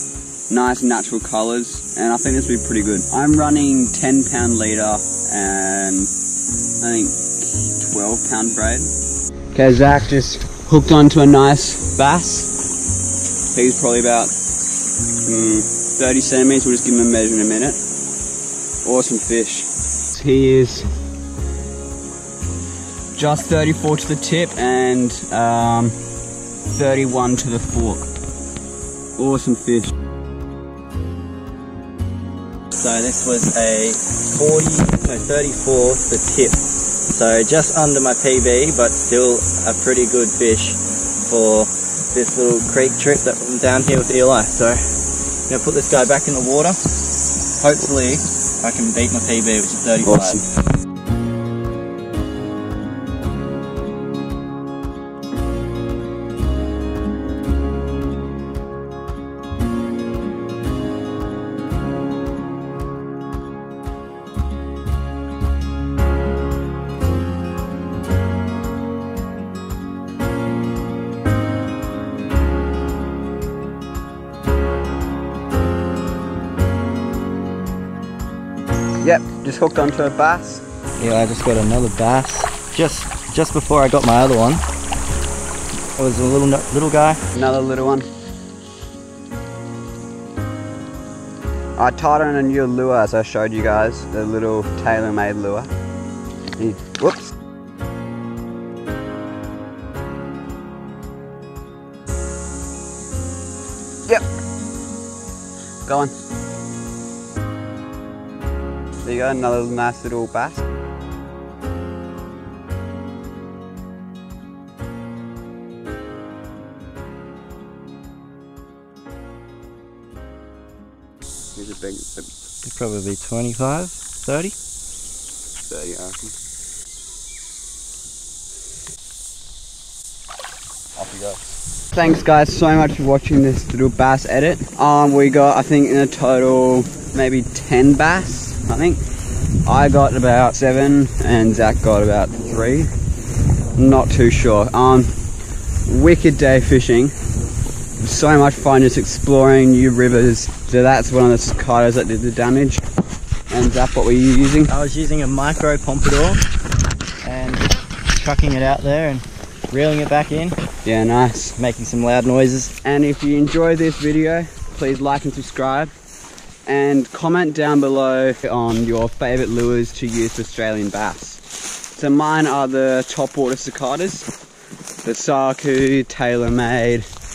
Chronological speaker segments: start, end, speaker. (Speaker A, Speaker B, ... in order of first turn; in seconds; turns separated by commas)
Speaker A: 0.5-6.1, Speaker A: 6.8-8.9, Speaker A: 9.5-12.5, Speaker A: 13.5-14.3, Speaker A: 15.2-17.8, Speaker A: 18.8-20.9, Speaker A: 23.1-25.9, Speaker A: 26.7-28.1, Speaker A: 29.2-29.9, Speaker B: 32.8-44.8, Speaker B: 45.5-46.8, Speaker B: 47.6-50.4, Speaker A: 50.1-50.4, Speaker A: 79.0-80.6, Speaker B: 81.0-84.6, Speaker B: 86.0-87.2, Speaker A: 87.3-88.0, Speaker A: 91.8-95.7, Speaker A: 96.6-97.3, Speaker A: 105.8-106.1, Speaker A: 109.0-110.6, Speaker A: 121.5-122.3, Speaker B: 122.6-124.5, Speaker A: 125.7-126.3, Speaker A: 130.9-139.0, Speaker A: 139.7-142.9, Speaker A: 143.8-145.1, Speaker A: 145.8-147.1, Speaker A: 148.0-152.8, Speaker A: 153.5-154.7, Speaker B: 154.7-156.4, Speaker B: 157.2-160.6, Speaker A: 160.8-161.6, Speaker B: 161.6-162.7, Speaker A: 162.8-165.9, Speaker A: 166.7-171.4, Speaker A: 171.9-174.3, Speaker A: 175.0-177.0